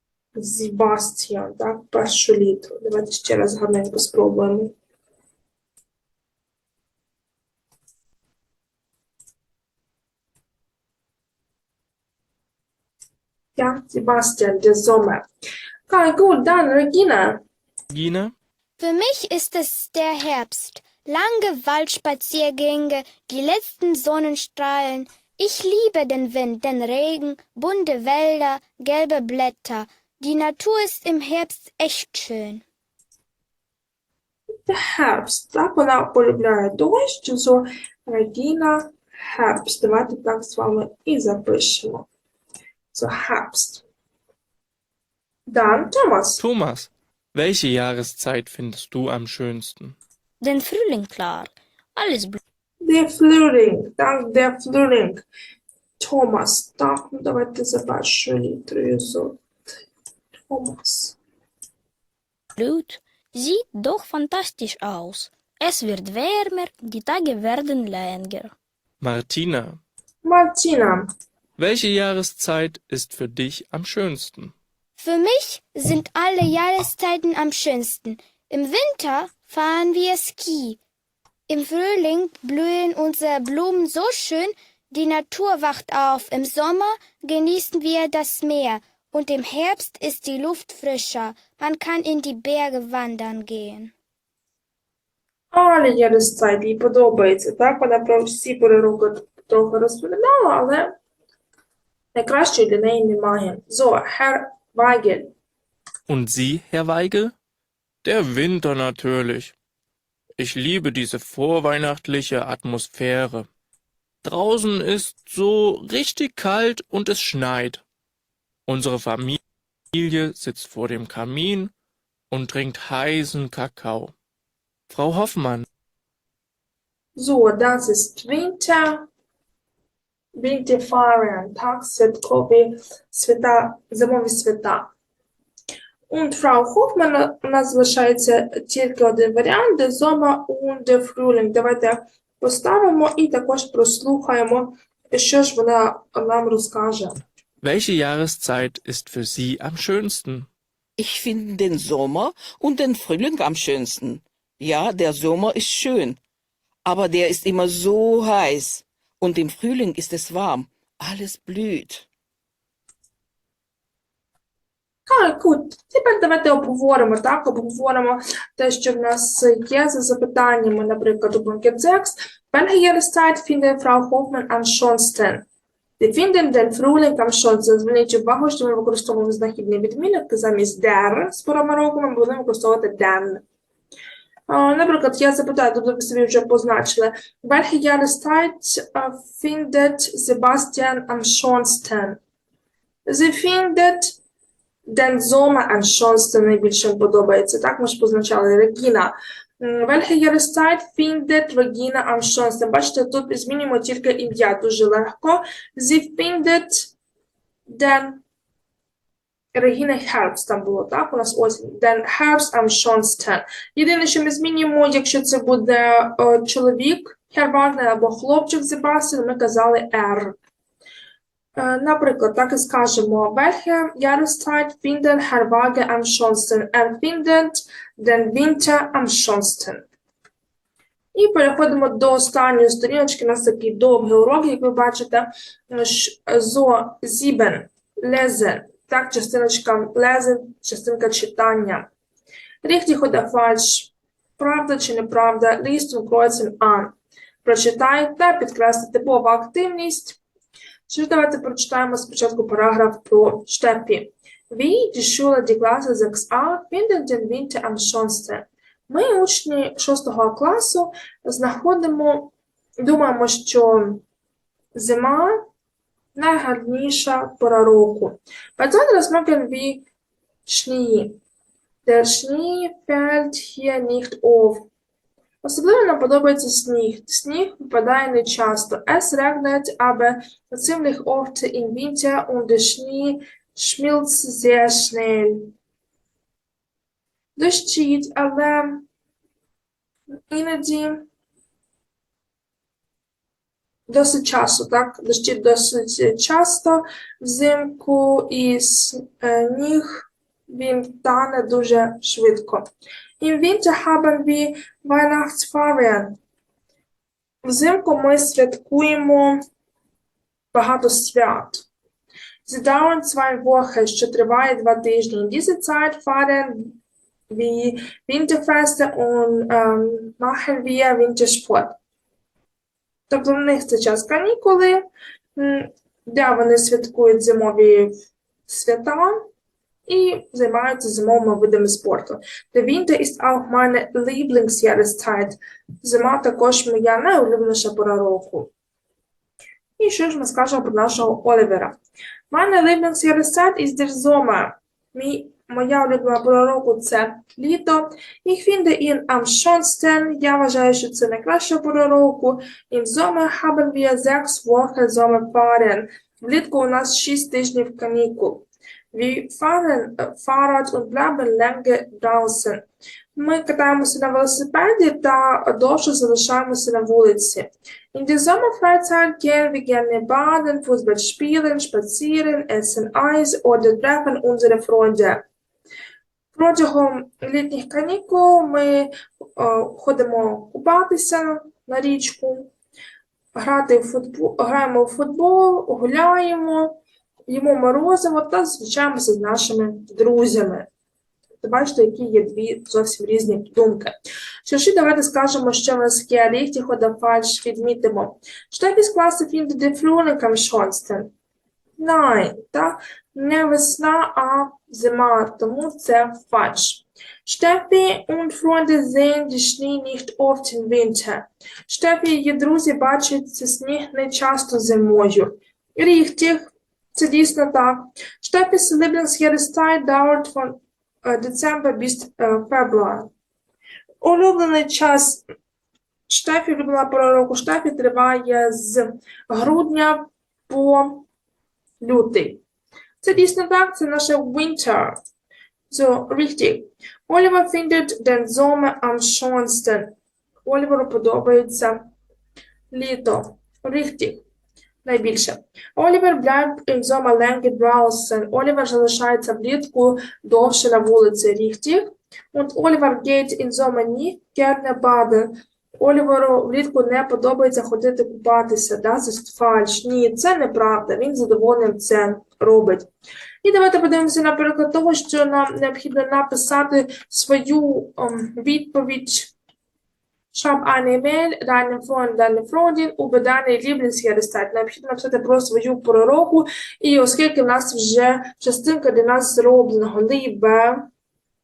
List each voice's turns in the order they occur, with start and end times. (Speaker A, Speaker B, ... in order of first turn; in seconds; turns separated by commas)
Speaker A: 0.3-4.7, Speaker A: 13.6-15.3, Speaker A: 15.9-17.4, Speaker B: 17.9-18.3, Speaker C: 18.8-32.6, Speaker A: 34.7-42.1, Speaker A: 42.9-43.8, Speaker A: 45.5-46.4, Speaker B: 46.4-50.0, Speaker D: 50.4-52.4, Speaker A: 52.8-55.2, Speaker A: 56.0-59.4, Speaker A: 60.5-61.2, Speaker D: 62.6-68.5, Speaker B: 69.0-69.8, Speaker A: 70.2-71.1, Speaker B: 71.6-74.5, Speaker C: 75.0-80.8, Speaker C: 81.5-93.9, Speaker A: 95.5-101.0, Speaker A: 102.1-105.3, Speaker B: 106.1-107.3, Speaker B: 108.0-109.5, Speaker B: 110.4-113.5, Speaker B: 114.2-117.8, Speaker B: 118.7-119.4, Speaker B: 119.9-121.7, Speaker B: 122.3-124.1, Speaker B: 124.9-125.7, Speaker A: 127.2-129.1, Speaker A: 130.4-134.9, Speaker A: 136.1-147.2, Speaker B: 147.6-150.5, Speaker E: 151.0-156.2, Speaker E: 156.9-162.1, Speaker A: 165.1-175.4, Speaker A: 176.0-183.4, Speaker A: 184.5-192.2, Speaker A: 193.1-194.2, Speaker A: 194.9-206.9, Speaker A: 207.7-208.2, Speaker A: 209.6-220.4, Speaker A: 221.6-229.8, Speaker A: 231.1-241.9, Speaker A: 242.6-250.2, Speaker A: 250.9-264.0, Speaker A: 264.7-265.4, Speaker A: 266.1-269.9, Speaker A: 270.5-271.2, Speaker A: 271.9-274.7, Speaker A: 275.4-285.6, Speaker A: 287.4-288.9, Speaker A: 290.3-291.1, Speaker A: 293.9-302.7, Speaker A: 303.2-306.2, Speaker A: 307.4-309.4, Speaker A: 310.5-311.6, Speaker A: 312.4-316.8, Speaker A: 317.3-321.8, Speaker A: 323.1-324.8, Speaker A: 325.4-327.9, Speaker A: 328.5-329.3, Speaker A: 329.9-338.5, Speaker A: 339.8-341.8, Speaker A: 342.3-362.6, Speaker A: 363.2-375.2, Speaker A: 376.4-382.5, Speaker A: 383.4-386.8, Speaker A: 387.3-390.7, Speaker A: 391.4-393.9, Speaker A: 394.4-401.1, Speaker A: 401.8-423.1, Speaker A: 424.0-425.2, Speaker A: 426.1-431.1, Speaker A: 431.8-432.4, Speaker A: 433.0-435.0, Speaker A: 435.7-439.9, Speaker A: 440.5-441.9, Speaker A: 442.7-444.2, Speaker A: 444.9-462.9, Speaker A: 463.4-469.3, Speaker A: 470.3-480.9